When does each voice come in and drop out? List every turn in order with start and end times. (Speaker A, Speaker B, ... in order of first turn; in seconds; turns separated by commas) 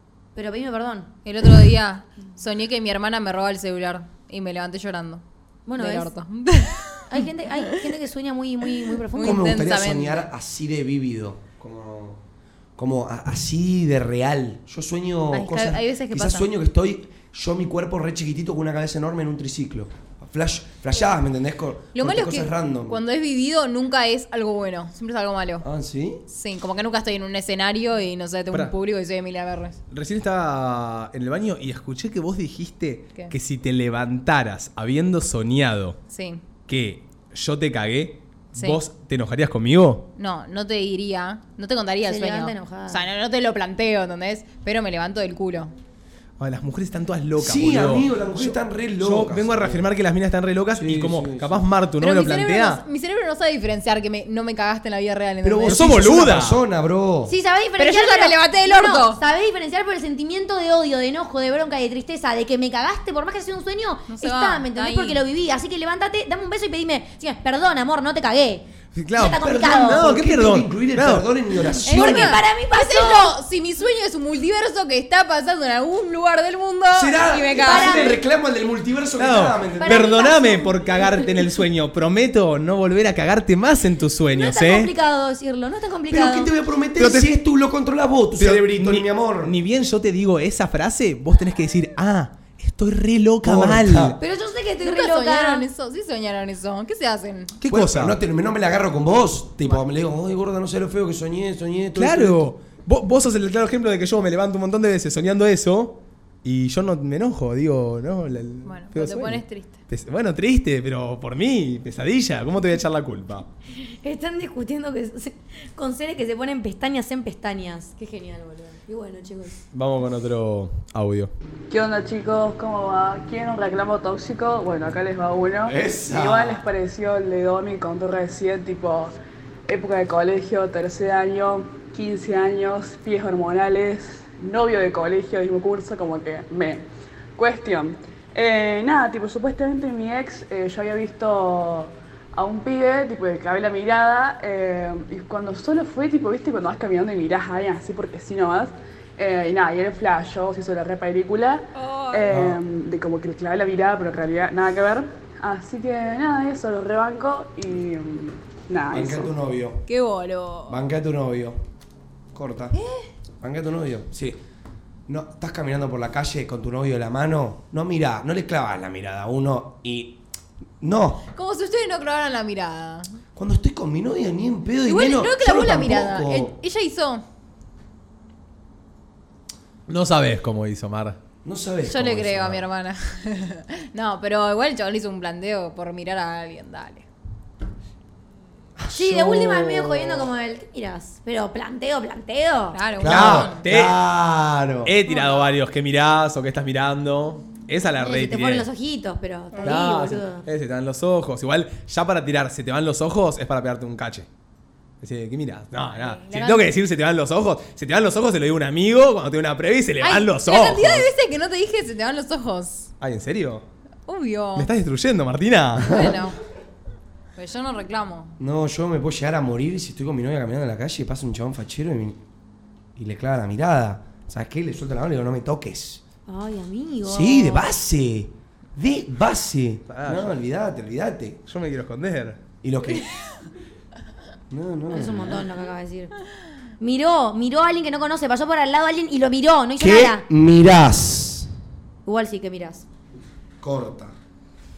Speaker A: 0.3-1.1, Speaker B: 1.2-5.2, Speaker A: 5.7-6.1, Speaker B: 5.8-7.3, Speaker A: 7.1-9.6, Speaker B: 8.9-10.3, Speaker C: 9.2-12.2, Speaker C: 12.8-23.0, Speaker B: 15.3-16.5, Speaker B: 21.9-25.7, Speaker C: 25.6-26.2, Speaker B: 26.3-29.8, Speaker D: 29.9-36.0, Speaker B: 36.1-36.4, Speaker D: 36.7-40.1, Speaker B: 40.2-45.7, Speaker A: 42.0-43.0, Speaker D: 46.4-52.8, Speaker C: 47.4-49.8, Speaker C: 50.8-51.7, Speaker B: 52.0-56.0, Speaker C: 55.4-57.3, Speaker D: 55.7-56.6, Speaker A: 57.3-70.1, Speaker B: 57.8-59.2, Speaker B: 64.1-65.2, Speaker D: 69.0-71.3, Speaker C: 69.3-72.4, Speaker A: 71.8-73.4, Speaker B: 71.8-78.2, Speaker C: 76.9-80.2, Speaker A: 77.5-78.2, Speaker D: 79.2-84.9, Speaker A: 79.8-81.5, Speaker A: 84.3-86.5, Speaker C: 86.1-89.5, Speaker D: 87.0-87.3, Speaker D: 88.3-94.2, Speaker C: 93.4-94.2, Speaker A: 94.2-95.7, Speaker B: 94.8-97.6, Speaker D: 97.6-98.2, Speaker C: 97.7-102.5, Speaker D: 102.0-113.5, Speaker B: 108.7-109.8, Speaker A: 113.7-119.6, Speaker D: 119.7-121.3, Speaker E: 121.7-129.2, Speaker C: 125.7-126.6, Speaker E: 129.7-136.8, Speaker E: 137.4-159.4, Speaker B: 151.8-152.4, Speaker C: 152.3-152.6, Speaker C: 158.9-159.8, Speaker B: 159.9-160.8, Speaker C: 160.7-161.6, Speaker C: 162.3-162.8, Speaker B: 162.8-163.1, Speaker C: 163.4-164.4, Speaker C: 165.1-170.2, Speaker C: 170.8-171.2, Speaker B: 171.3-173.2, Speaker C: 173.3-176.6, Speaker B: 174.9-177.2, Speaker D: 179.9-181.2, Speaker C: 181.4-182.6, Speaker B: 181.8-187.1, Speaker C: 188.8-190.3, Speaker A: 188.9-192.8, Speaker B: 192.7-193.6, Speaker C: 193.0-194.9, Speaker D: 193.1-194.0, Speaker D: 194.8-198.7, Speaker B: 195.1-195.5, Speaker A: 198.0-200.5, Speaker D: 199.6-204.3, Speaker D: 205.0-211.1, Speaker B: 205.9-206.7, Speaker B: 210.0-212.9, Speaker D: 213.0-213.7, Speaker B: 214.1-214.7, Speaker D: 214.6-216.1, Speaker B: 215.9-216.4, Speaker B: 217.4-218.3, Speaker C: 218.4-222.2, Speaker C: 223.0-226.0, Speaker A: 226.3-227.7, Speaker C: 227.0-231.4, Speaker D: 229.9-230.3, Speaker D: 231.5-232.4, Speaker C: 232.6-233.1, Speaker C: 234.5-235.5, Speaker A: 234.9-236.1, Speaker A: 236.8-240.2, Speaker C: 239.8-241.5, Speaker A: 242.1-242.9, Speaker C: 243.6-244.2